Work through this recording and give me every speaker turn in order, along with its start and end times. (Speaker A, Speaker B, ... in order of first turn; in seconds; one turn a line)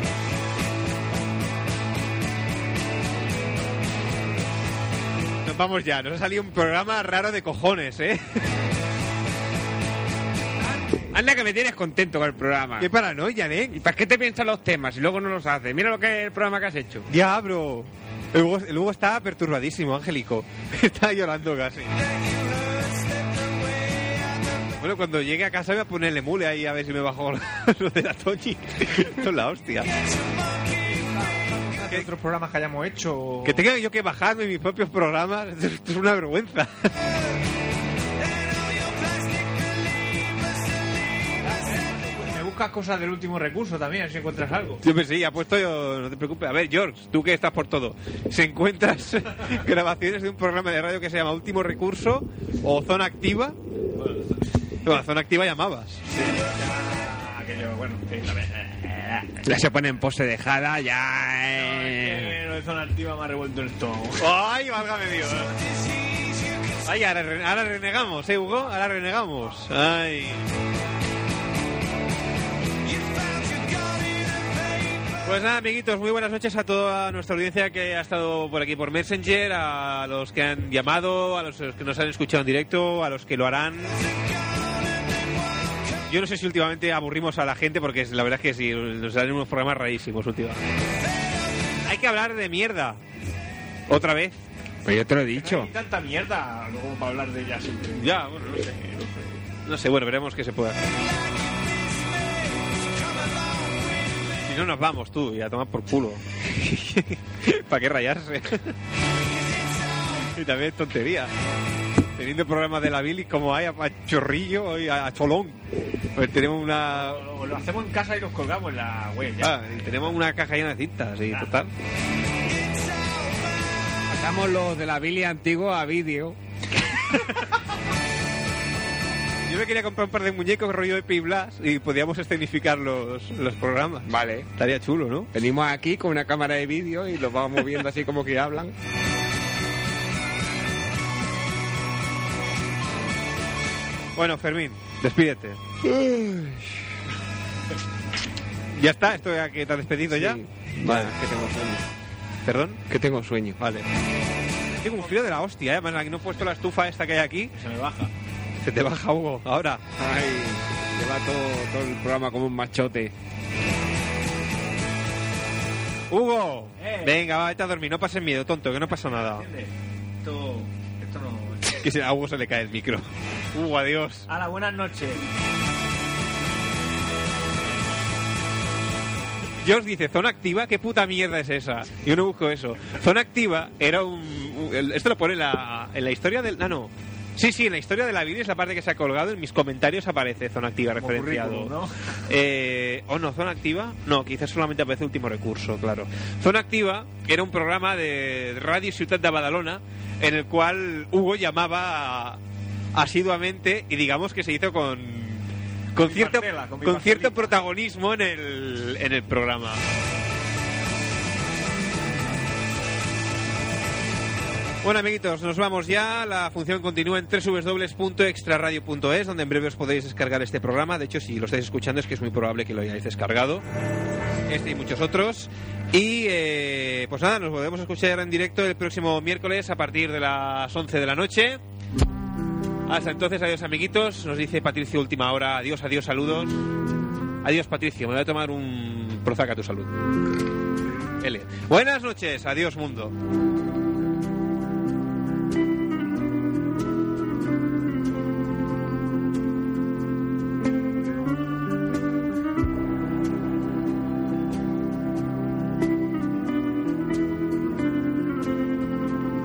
Speaker A: 5.4-8.4
Speaker B: 11.1-12.9
Speaker A: 12.8-13.8
Speaker B: 13.7-17.1
Speaker A: 17.1-21.9
Speaker A: 24.7-29.9
Speaker C: 31.2-33.6
Speaker A: 33.4-36.7
Speaker C: 41.4-44.8
Speaker A: 44.8-53.6
Speaker C: 54.0-54.4
Speaker A: 54.8-56.0
Speaker C: 56.1-59.3
Speaker B: 59.4-62.3
Speaker C: 61.6-64.2
Speaker A: 64.2-65.5
Speaker A: 66.8-70.4
Speaker A: 75.2-83.9
Speaker A: 86.1-90.6
Speaker A: 91.8-93.0
Speaker A: 93.9-94.4
Speaker B: 94.8-95.7
Speaker C: 95.3-99.2
Speaker A: 97.9-98.6
Speaker A: 99.6-100.8
Speaker A: 104.4-108.7
Speaker A: 110.2-111.3
Speaker A: 112.2-115.6
Speaker A: 116.1-117.2
Speaker C: 116.8-120.2
Speaker A: 119.4-121.7
Speaker B: 124.1-126.4
Speaker A: 129.4-135.3
Speaker B: 134.1-134.5
Speaker B: 135.3-138.7
Speaker A: 144.1-145.6
Speaker B: 145.8-146.7
Speaker A: 148.7-151.1
Speaker B: 150.1-151.8
Speaker A: 152.4-152.8
Speaker B: 152.9-153.6
Speaker A: 153.6-153.8
Speaker A: 154.8-157.5
Speaker C: 157.5-158.1
Speaker A: 158.6-159.8
Speaker B: 160.0-163.1
Speaker A: 166.1-169.5
Speaker C: 166.8-167.2
Speaker C: 168.8-171.8
Speaker A: 171.7-174.3
Speaker C: 174.3-175.2
Speaker A: 179.6-191.7
Speaker C: 191.0-191.9
Speaker A: 192.3-202.4
Speaker A: 202.9-209.8
Speaker C: 206.0-207.5
Speaker A: 214.8-223.6
Speaker A: 224.5-231.6
Speaker A: 232.9-236.6
Speaker A: 237.4-239.9
Speaker A: 241.2-243.1